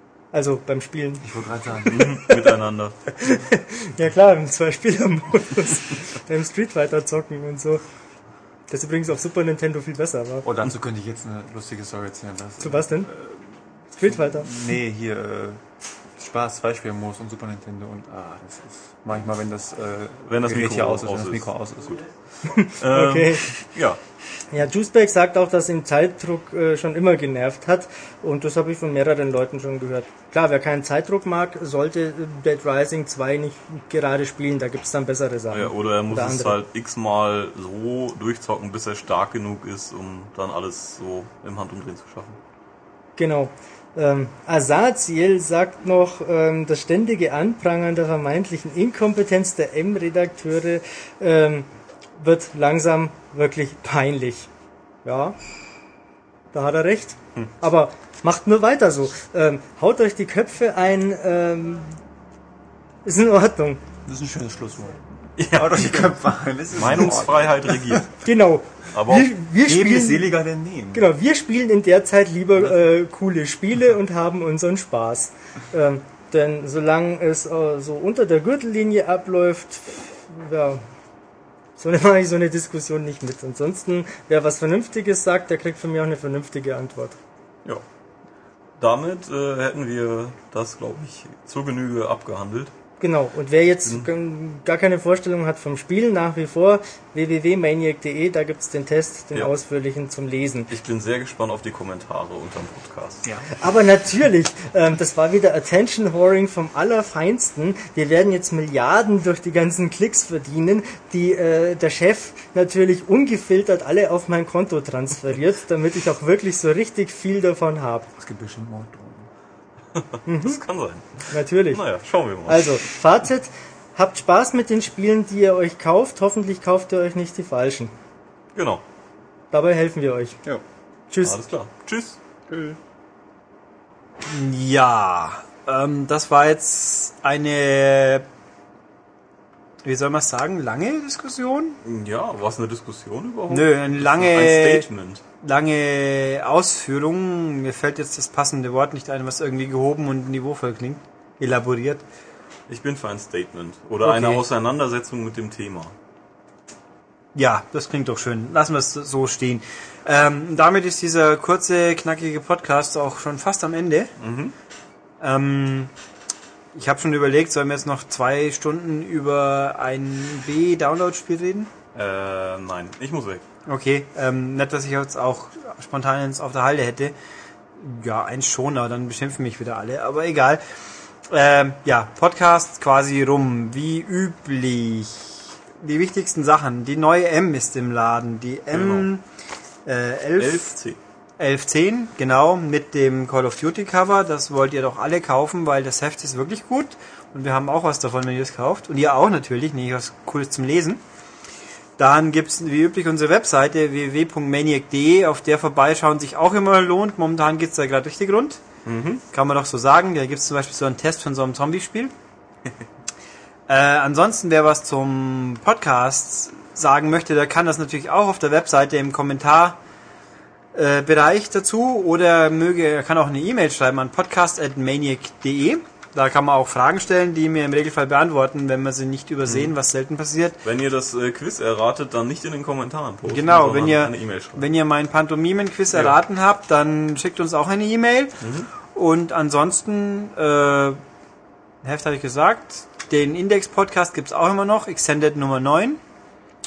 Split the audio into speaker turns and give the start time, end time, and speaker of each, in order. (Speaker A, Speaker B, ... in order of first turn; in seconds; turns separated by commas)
Speaker A: 0.3-1.3, Speaker B: 1.2-2.0, Speaker A: 1.9-2.5, Speaker C: 1.9-3.0, Speaker A: 3.2-7.8, Speaker A: 8.7-10.4, Speaker B: 10.4-13.5, Speaker A: 12.6-13.1, Speaker A: 13.9-14.6, Speaker B: 14.0-15.6, Speaker B: 16.2-22.0, Speaker C: 20.3-21.5, Speaker A: 22.4-23.7, Speaker C: 22.6-24.0, Speaker A: 24.5-36.6, Speaker C: 35.5-42.4, Speaker A: 43.2-54.5, Speaker A: 55.0-55.4, Speaker A: 56.5-62.0, Speaker A: 63.0-63.8, Speaker B: 64.0-67.7, Speaker C: 65.4-66.1, Speaker C: 66.8-68.2, Speaker A: 68.2-70.3, Speaker C: 68.9-69.3, Speaker B: 69.6-71.1, Speaker A: 70.9-80.8, Speaker A: 81.8-87.2, Speaker C: 88.8-92.7, Speaker A: 93.0-100.7, Speaker C: 100.7-103.3, Speaker B: 103.2-103.5, Speaker A: 103.6-118.1, Speaker B: 118.2-119.3, Speaker C: 120.0-122.8, Speaker A: 120.3-120.6, Speaker A: 121.3-121.8, Speaker A: 122.5-127.9, Speaker C: 128.6-128.8, Speaker A: 129.5-130.4, Speaker A: 131.1-131.4, Speaker C: 131.2-132.2, Speaker B: 132.5-132.8, Speaker D: 134.3-138.2, Speaker D: 139.8-141.8, Speaker C: 141.8-145.2, Speaker D: 143.5-144.9, Speaker D: 145.4-152.0, Speaker C: 152.7-155.9, Speaker D: 154.0-154.4, Speaker D: 157.3-164.1, Speaker C: 164.2-164.6, Speaker D: 165.2-165.9, Speaker D: 166.7-171.7, Speaker C: 171.9-173.4, Speaker D: 173.7-177.1, Speaker D: 177.8-180.6, Speaker D: 181.3-189.2, Speaker C: 188.7-189.1, Speaker D: 189.9-190.7, Speaker C: 190.4-191.0, Speaker D: 191.4-201.0, Speaker D: 202.0-208.6, Speaker C: 208.8-209.2, Speaker D: 209.3-212.1, Speaker D: 213.7-219.8, Speaker D: 220.7-230.6, Speaker C: 230.6-234.7, Speaker D: 233.3-238.4, Speaker C: 238.4-238.7, Speaker D: 238.9-241.0, Speaker D: 241.8-246.0